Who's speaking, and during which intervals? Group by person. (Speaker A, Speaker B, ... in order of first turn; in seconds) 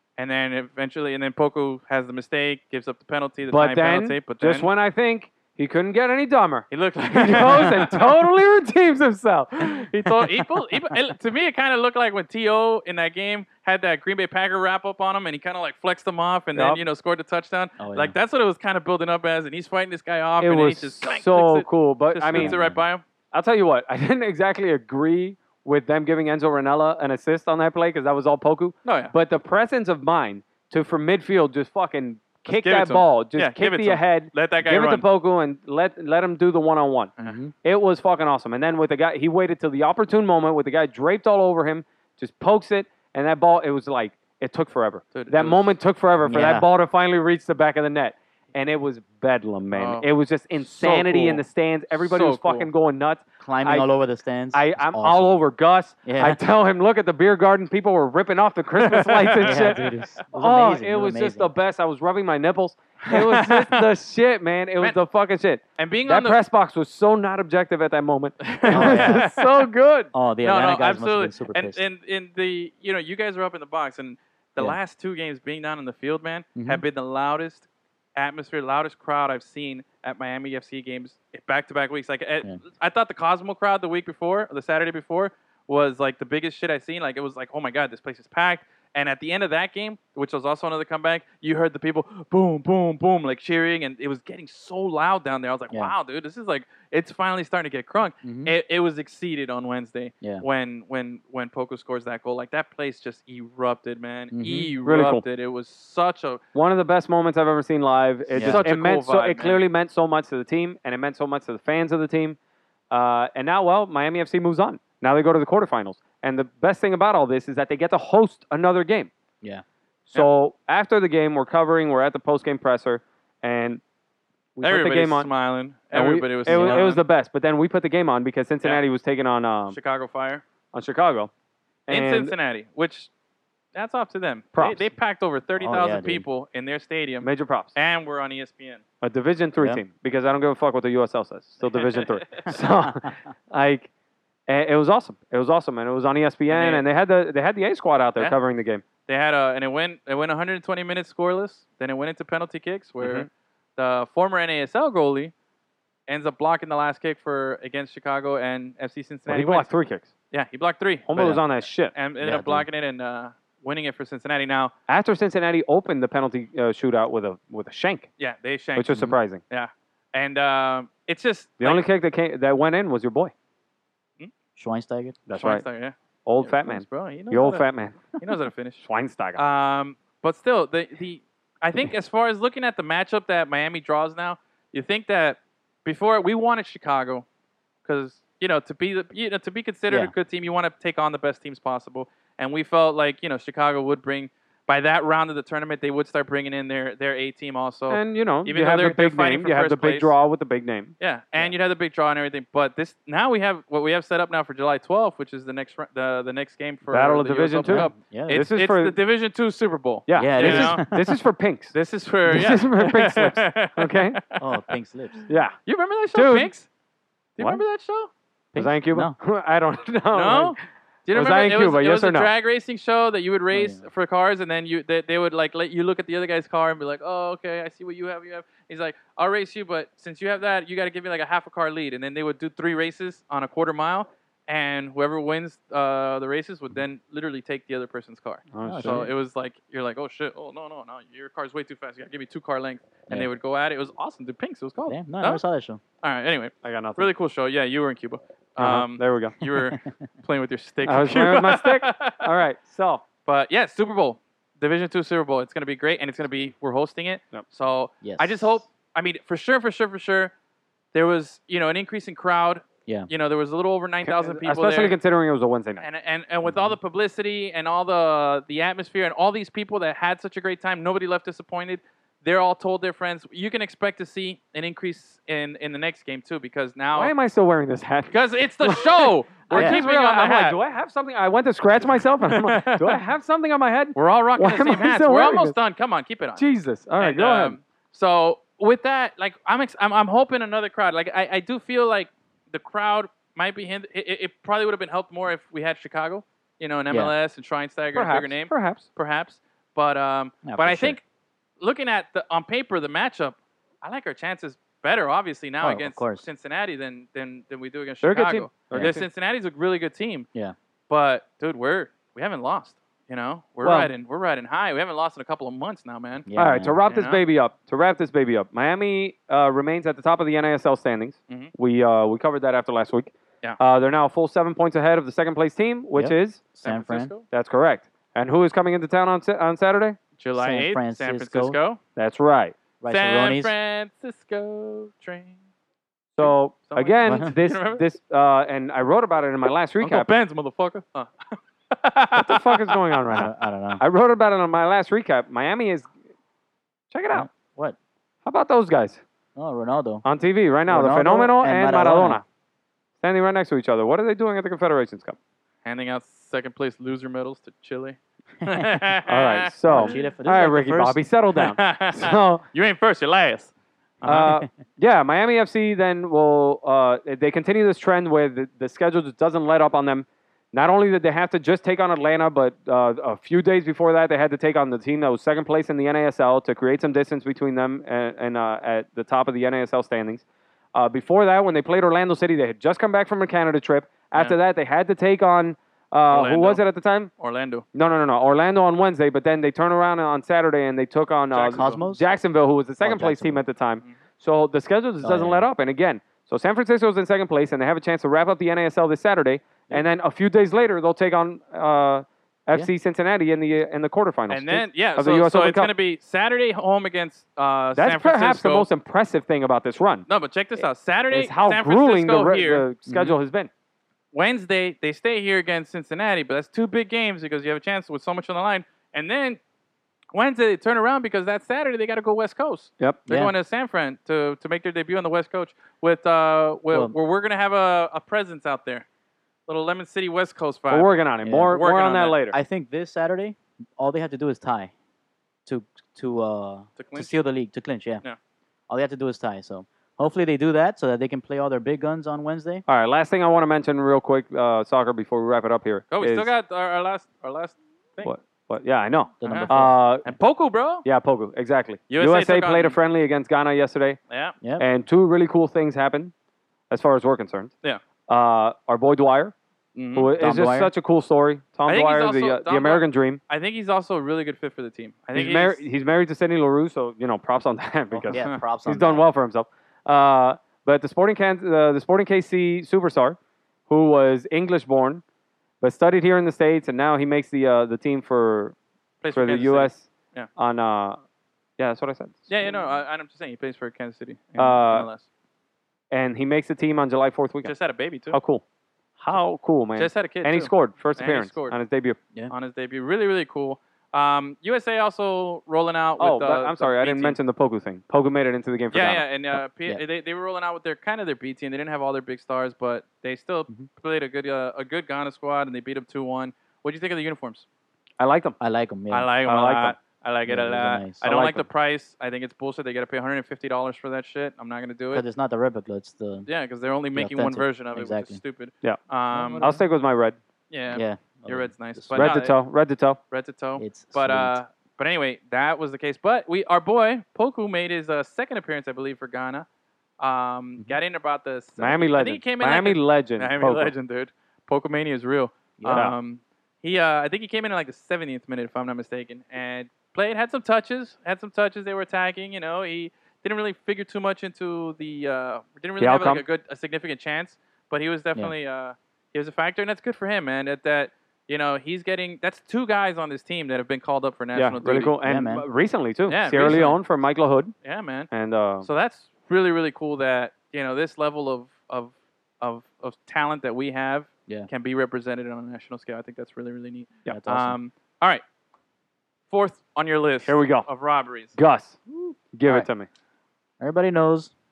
Speaker A: 0.2-4.7, 6.7-8.1, 9.6-23.0, 28.8-29.1, 32.5-35.0, 45.1-45.7, 49.7-52.7, 58.8-60.2, 63.0-63.8, 65.8-66.4, 68.4-69.5, 70.4-106.4, 108.3-109.6, 124.6-127.0, 129.7-130.4, 131.9-133.1, 133.7-138.8, 141.6-142.5, 146.5-146.8, 149.1-155.3, 156.1-159.7, 160.3-161.1, 161.9-164.7, 168.2-171.8, 175.3-178.8, 179.3-187.2, 187.8-200.1, 201.0-210.8, 211.7-214.4, 215.7-216.7, 217.4-218.7, 220.1-245.4, 246.0-252.2, 253.2-260.3, 260.9-264.9, 265.8-277.1, 278.1-280.6, 282.3-283.0, 283.9-286.4, 287.0-301.0, 301.6-310.3, 310.9-316.3, 316.9-317.2, 326.6-327.2, 330.2-331.8, 332.9-335.4, 336.2-337.8, 339.8-342.8, 355.6-360.1, 361.4-364.4, 386.1-386.6, 387.2-387.6, 391.3-391.8, 404.3-408.7, 410.1-412.6, 414.1-419.4, 420.1-428.8, 429.5-430.9, 431.5-432.2, 436.8-437.2, 445.9-448.1, 449.2-450.9, 451.9-452.8, 454.1-454.4, 459.7-460.1, 461.7-465.6, 468.1-468.4, 479.0-480.3, 482.3-485.1, 487.4-488.2, 489.7-491.6, 492.3-497.2, 498.7-507.4, 508.9-515.0, 516.2-519.4, 520.5-522.4, 523.1-529.5, 530.0-555.0, 556.1-556.8, 557.6-558.1, 558.6-568.2, 569.3-571.4
Speaker B: 3.5-10.1, 16.5-16.8, 20.4-22.6, 23.3-37.1, 37.6-53.9, 54.5-70.1, 104.8-105.2, 106.5-112.4, 112.9-119.1, 120.1-123.8, 124.5-125.3, 125.9-129.8, 130.7-131.3, 131.9-132.3, 134.5-134.9, 137.2-137.7, 139.0-143.9, 144.5-148.8, 153.0-153.3, 159.3-160.1, 161.1-161.9, 164.9-168.1, 168.8-169.4, 171.6-173.3, 175.3-175.6, 176.2-178.1, 178.8-179.4, 197.9-200.9, 206.9-208.9, 210.1-211.8, 212.3-214.2, 215.3-215.6, 216.1-216.5, 218.6-220.6, 221.1-222.3, 238.5-239.1, 246.6-247.1, 248.6-249.3, 250.8-253.0, 264.0-265.8, 276.9-285.6, 286.4-287.6, 297.9-298.9, 308.0-309.0, 313.6-313.9, 316.4-326.4, 327.3-330.0, 331.9-332.6, 336.2-340.1, 342.1-345.9, 346.9-347.3, 348.2-349.0, 350.0-352.2, 353.0-355.1, 359.1-362.4, 364.0-380.2, 380.7-387.1, 387.7-405.7, 407.8-410.1, 411.1-413.5, 430.7-432.4, 442.7-446.3, 448.0-450.1, 450.8-454.0, 454.6-456.1, 456.7-457.5, 458.1-459.3, 459.9-463.2, 465.1-475.0, 475.6-478.5, 479.1-481.0, 481.6-482.3, 484.4-484.9, 485.9-487.5, 488.1-488.4, 489.0-492.0, 496.0-499.1, 508.0-508.4, 509.2-509.7, 519.4-520.2, 521.9-523.0, 531.6-533.7, 545.8-546.2, 554.4-557.5, 558.1-558.7, 570.2-570.7, 571.3-571.8, 572.3-572.9
Speaker C: 17.8-18.1, 22.3-22.8, 37.2-37.5, 46.2-46.6, 53.4-55.4, 56.0-56.4, 59.4-61.5, 68.7-69.3, 70.1-71.8, 76.5-76.8, 98.2-98.5, 104.3-104.7, 108.3-108.6, 126.5-126.9, 135.6-136.2, 139.6-139.8, 161.1-161.4, 162.2-162.7, 174.6-175.2, 207.6-208.4, 210.1-211.2, 214.4-215.2, 218.6-219.1, 223.5-223.8, 238.6-239.1, 244.9-245.8, 258.0-258.5, 266.4-266.8, 279.5-279.8, 300.4-301.0, 305.6-306.2, 308.7-309.0, 316.3-316.8, 325.9-327.1, 330.3-331.6, 332.8-333.5, 337.0-337.3, 343.1-343.8, 347.1-347.8, 349.4-350.0, 350.7-352.2, 359.7-361.0, 364.1-364.4, 391.6-392.1, 392.8-393.4, 395.0-395.5, 412.9-413.1, 423.1-423.3, 431.2-431.6, 432.3-434.7, 435.4-438.0, 438.7-442.6, 449.2-449.8, 454.4-454.6, 460.2-460.7, 467.9-469.0, 508.4-509.1, 510.2-511.4, 514.9-516.3, 516.9-518.2, 519.1-519.6, 520.7-522.0, 523.6-524.4, 535.6-535.9, 555.0-555.4, 567.1-567.6, 571.9-572.7, 573.6-574.3